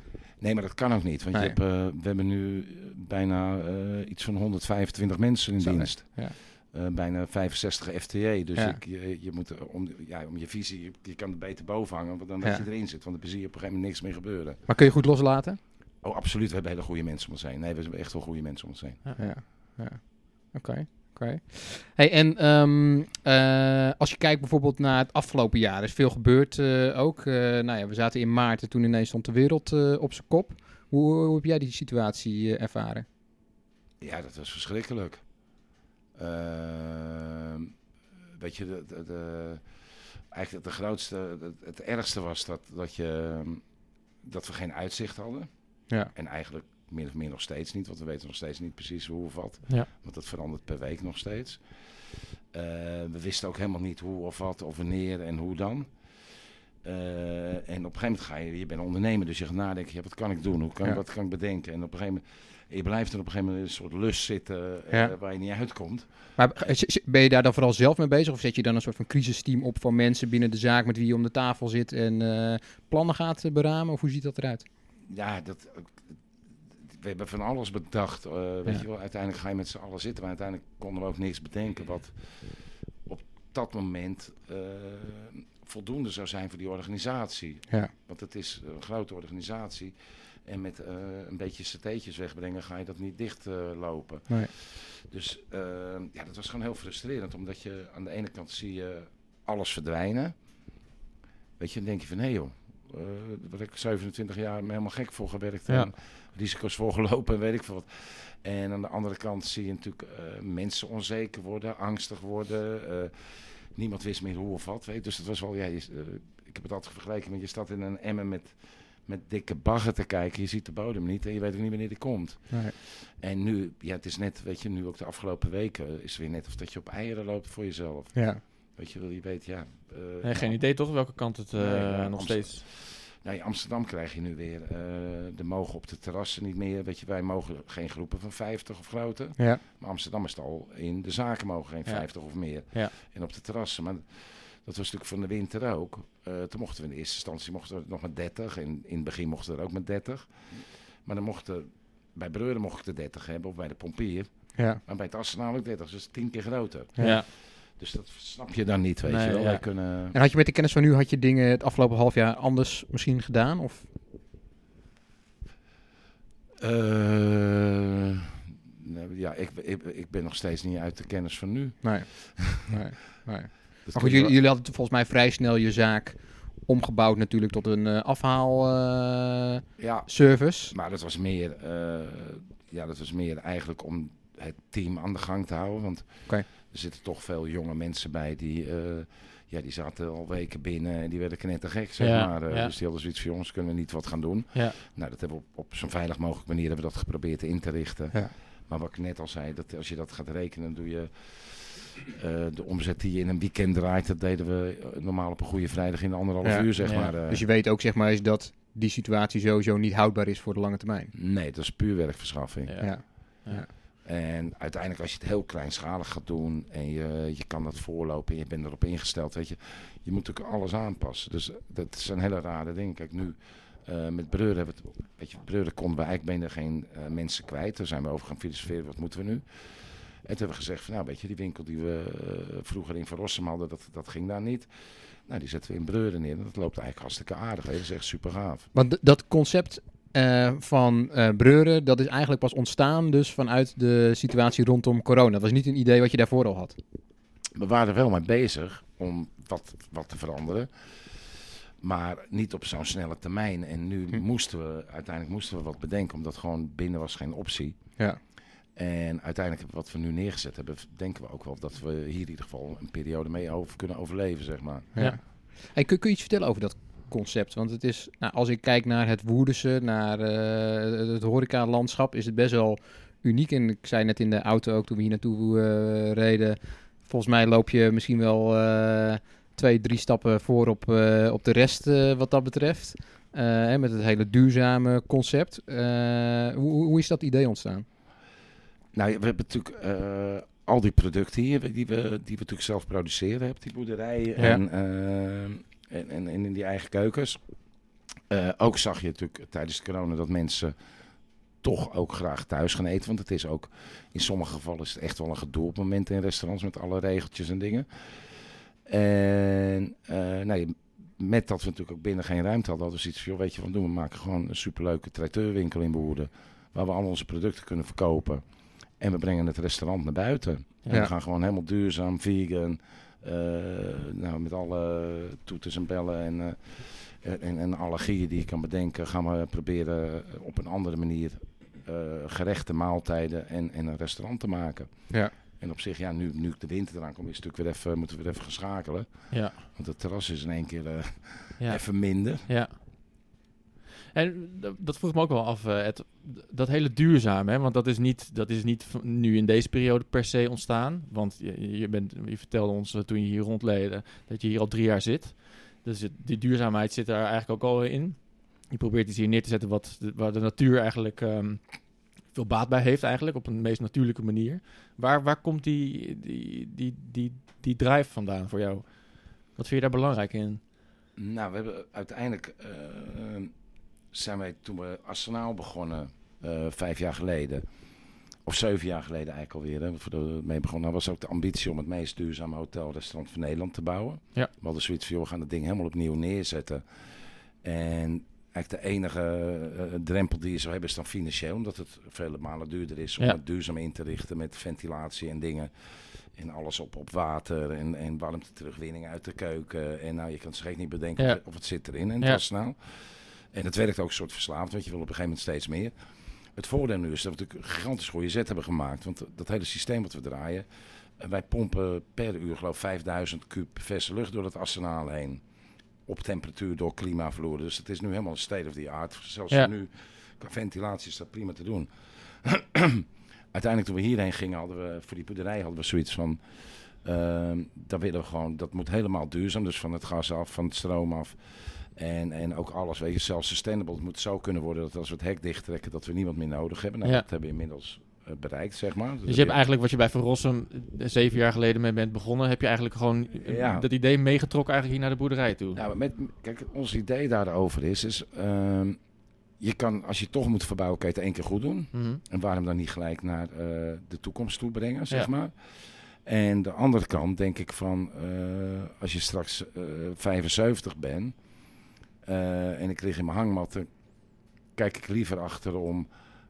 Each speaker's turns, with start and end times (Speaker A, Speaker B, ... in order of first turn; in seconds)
Speaker A: 0.4-14.6, 16.0-19.0, 34.0-35.2, 36.1-37.7, 38.4-39.7, 40.3-43.6, 44.2-45.5, 46.1-66.3, 75.1-76.0, 76.9-100.4, 101.6-130.6, 131.5-160.2, 166.6-172.6, 173.8-174.3, 179.8-207.4, 211.1-213.0, 214.0-238.7, 247.6-258.1, 258.7-264.9, 288.9-297.4, 298.3-300.7, 301.6-342.5, 371.2-373.5, 374.1-377.7, 378.4-415.4, 416.1-439.6, 443.4-443.9, 445.7-449.0, 449.6-461.5, 462.2-463.9, 464.7-466.1
Speaker B: 1.3-1.6, 5.6-6.4, 14.7-15.6, 19.2-33.0, 66.4-74.7, 128.1-128.4, 139.4-139.6, 154.6-154.8, 160.1-163.9, 171.8-180.7, 206.4-211.1, 212.8-213.7, 238.7-246.8, 264.9-287.9
Speaker C: 130.2-132.6, 141.9-142.9, 157.0-157.2, 159.1-159.6, 192.0-192.7, 206.8-207.1, 212.7-213.7, 339.3-339.6, 341.6-342.8, 344.1-370.6, 401.2-402.4, 439.3-445.8, 451.9-452.2